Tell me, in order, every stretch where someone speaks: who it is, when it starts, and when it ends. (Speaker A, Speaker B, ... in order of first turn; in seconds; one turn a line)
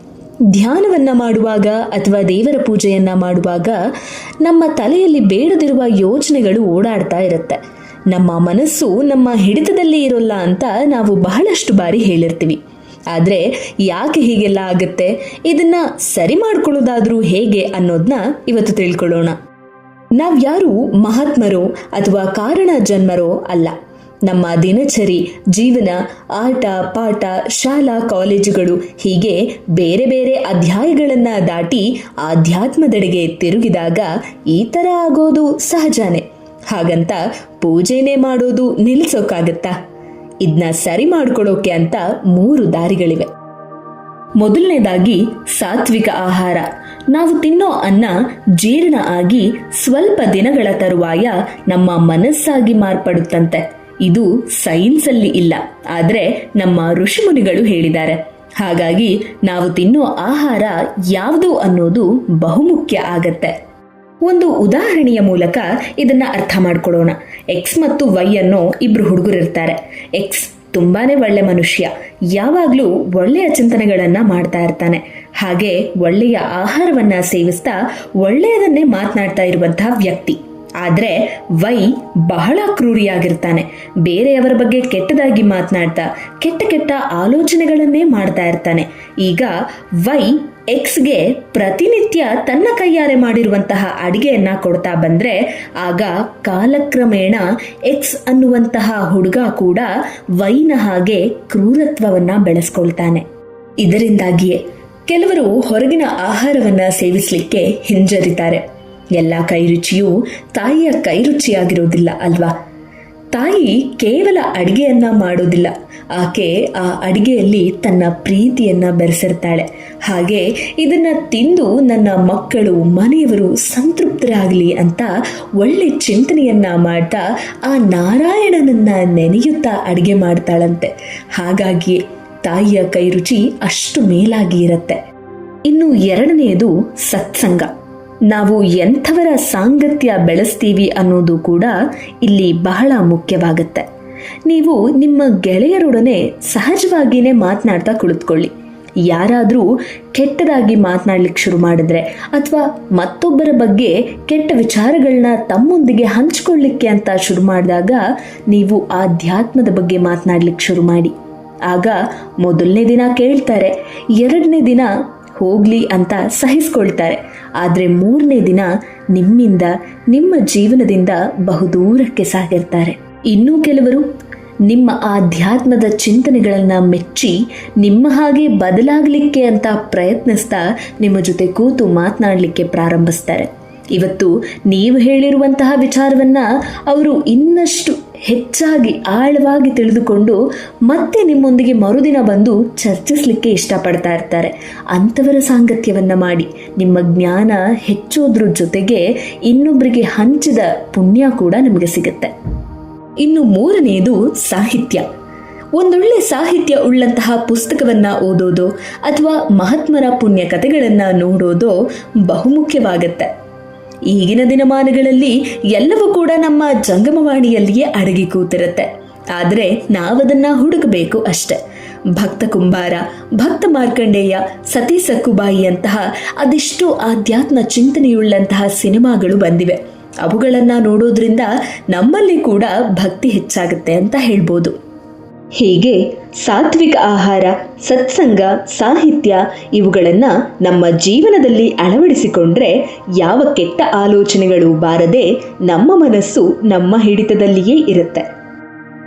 Speaker A: 0.5-3.8
Speaker A: 4.4-7.6
Speaker A: 8.1-12.6
Speaker A: 13.1-19.4
Speaker A: 20.1-23.7
Speaker A: 24.2-39.7
Speaker A: 40.4-43.3
Speaker A: 44.4-63.5
Speaker A: 64.2-103.2
Speaker A: 103.8-108.6
Speaker A: 109.1-112.5
Speaker A: 113.3-135.0
Speaker A: 135.7-137.7
Speaker A: 138.3-143.8
Speaker A: 144.4-148.5
Speaker A: 149.0-161.1
Speaker A: 161.7-174.1
Speaker A: 174.7-202.3
Speaker A: 203.2-205.0
Speaker A: 205.7-213.3
Speaker A: 214.1-221.6
Speaker A: 222.1-234.8
Speaker A: 235.6-248.2